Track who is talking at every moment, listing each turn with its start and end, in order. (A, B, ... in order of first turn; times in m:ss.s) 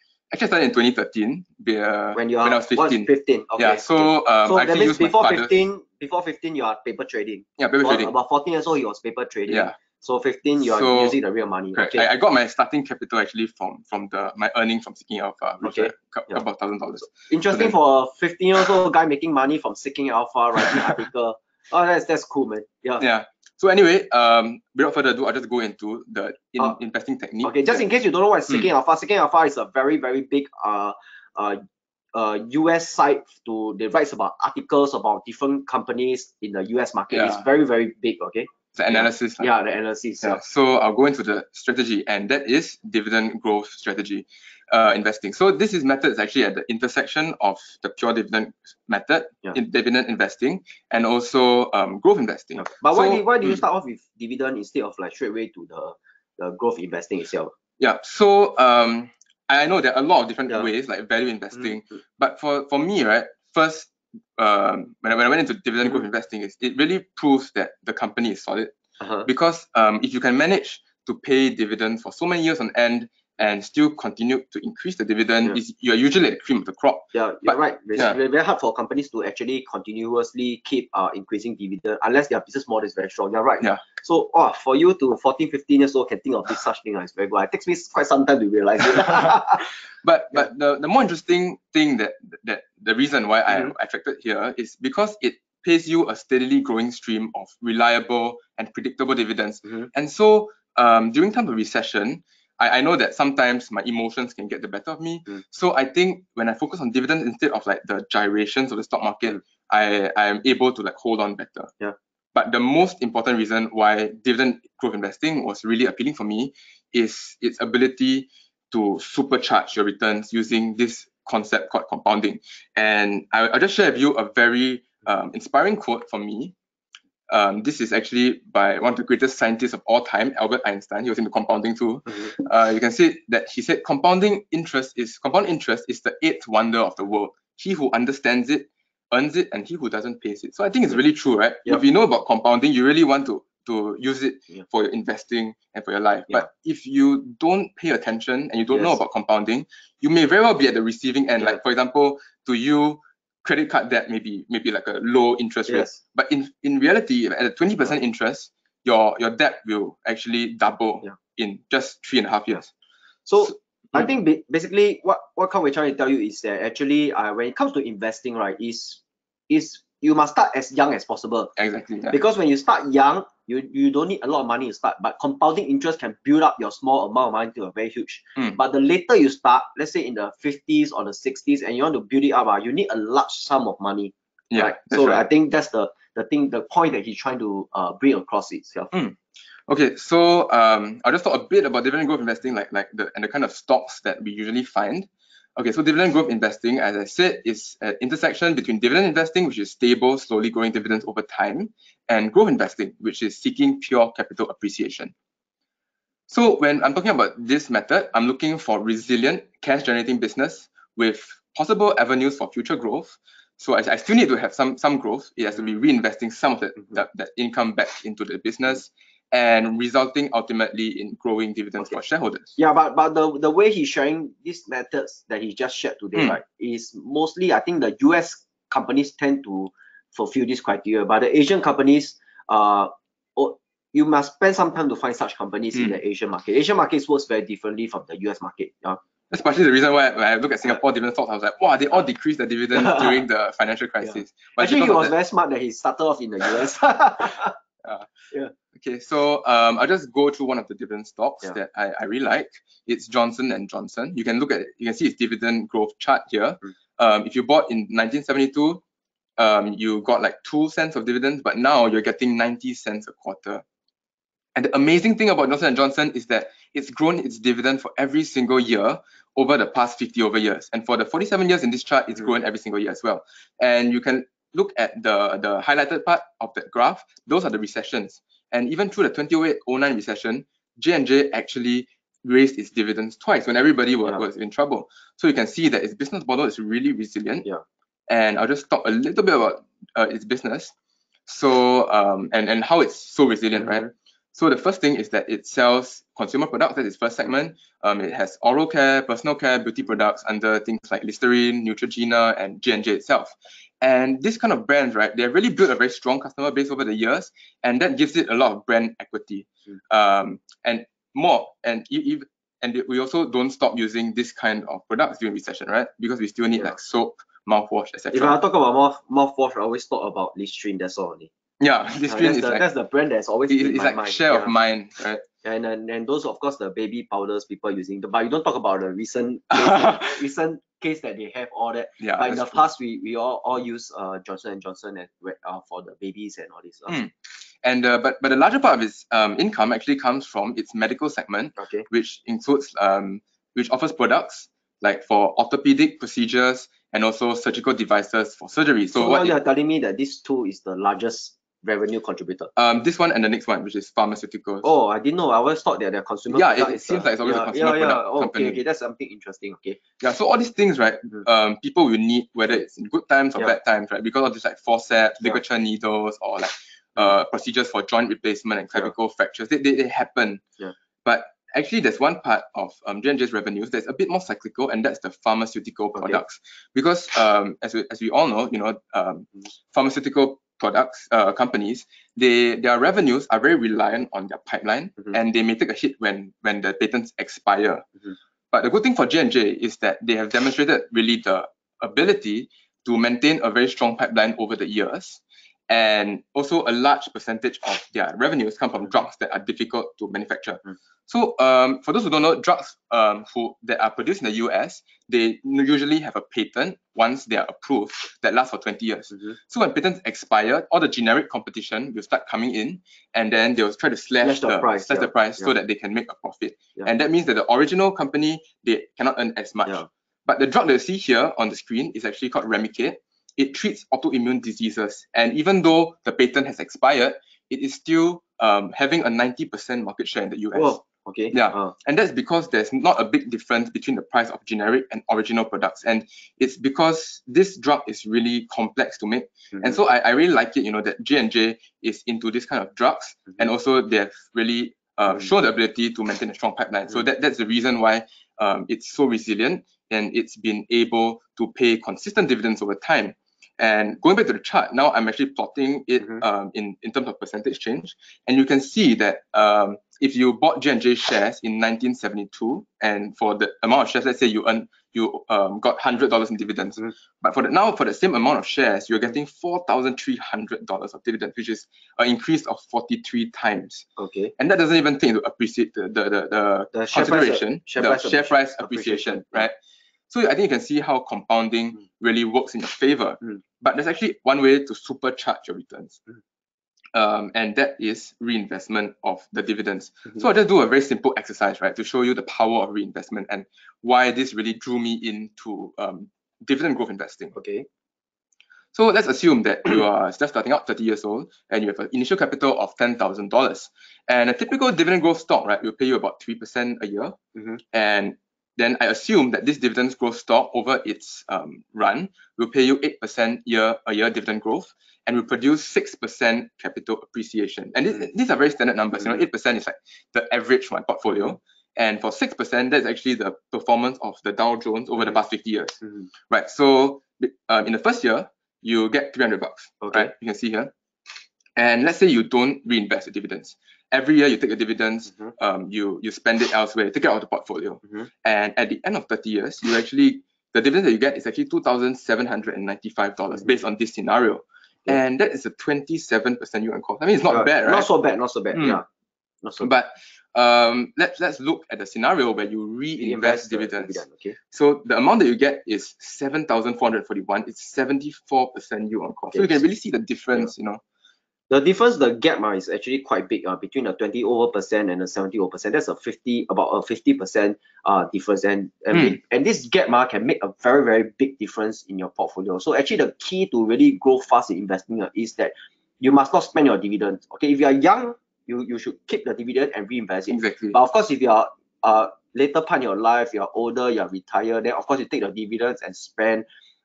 0:00.3-0:05.5 A
0:02.2-0:12.1 B
0:07.6-0:08.1 A
0:09.5-0:09.8 A
0:10.6-0:11.2 A
0:11.8-0:17.8 A
0:15.6-0:16.4 B
0:17.1-0:23.0 B
0:23.0-0:27.8 A
0:27.4-0:31.6 B
0:32.1-0:40.4 B
0:37.1-0:37.4 A
0:38.8-0:39.5 A
0:40.2-0:53.6 A
0:52.6-0:57.5 B
0:57.8-1:08.7 A
1:09.0-1:09.3 B
1:09.3-1:18.2 A
1:17.1-1:29.7 B
1:29.1-1:29.4 A
1:30.0-1:51.7 A
1:52.3-2:06.5 A
2:07.3-2:42.7 A
2:35.7-2:36.0 B
2:43.3-2:51.5 B
2:51.6-2:52.2 A
2:52.1-3:08.9 B
3:04.5-3:05.2 A
3:08.9-3:09.2 A
3:09.7-3:25.1 A
3:26.3-3:42.5 A
3:42.6-3:59.0 B
3:59.3-4:05.1 A
4:02.8-4:03.1 B
4:04.0-4:07.5 B
4:07.8-4:08.1 A
4:08.7-4:18.8 A
4:19.4-4:23.6 A
4:24.6-4:47.4 A
4:48.1-4:50.7 A
4:51.3-5:18.4 A
4:53.6-4:53.9 B
5:18.1-5:21.3 B
5:21.6-5:22.6 A
5:22.1-5:24.5 B
5:23.5-5:25.2 A
5:25.4-5:37.0 B
5:29.5-5:30.2 A
5:32.0-5:32.6 A
5:36.9-5:49.4 A
5:41.6-5:41.9 B
5:49.0-5:52.5 B
5:52.6-5:54.7 A
5:54.6-5:59.8 B
5:56.3-5:58.6 A
6:00.0-6:10.4 A
6:11.0-6:27.9 A
6:28.5-7:10.8 A
6:54.2-6:55.5 B
7:10.6-7:11.7 B
7:11.3-7:53.9 A
7:54.0-7:54.3 B
7:54.4-7:59.5 A
7:56.7-7:59.5 B
8:00.1-8:06.0 A
8:06.9-8:17.3 A
8:17.3-8:17.7 B
8:18.7-8:27.2 A
8:27.7-8:50.7 A
8:49.8-8:50.1 B
8:51.6-9:07.9 A
9:07.3-9:08.8 B
9:08.5-9:08.8 A
9:09.4-9:09.7 B
9:09.6-9:20.8 A
9:13.0-9:14.4 B
9:21.5-9:46.5 B
9:40.3-9:40.8 A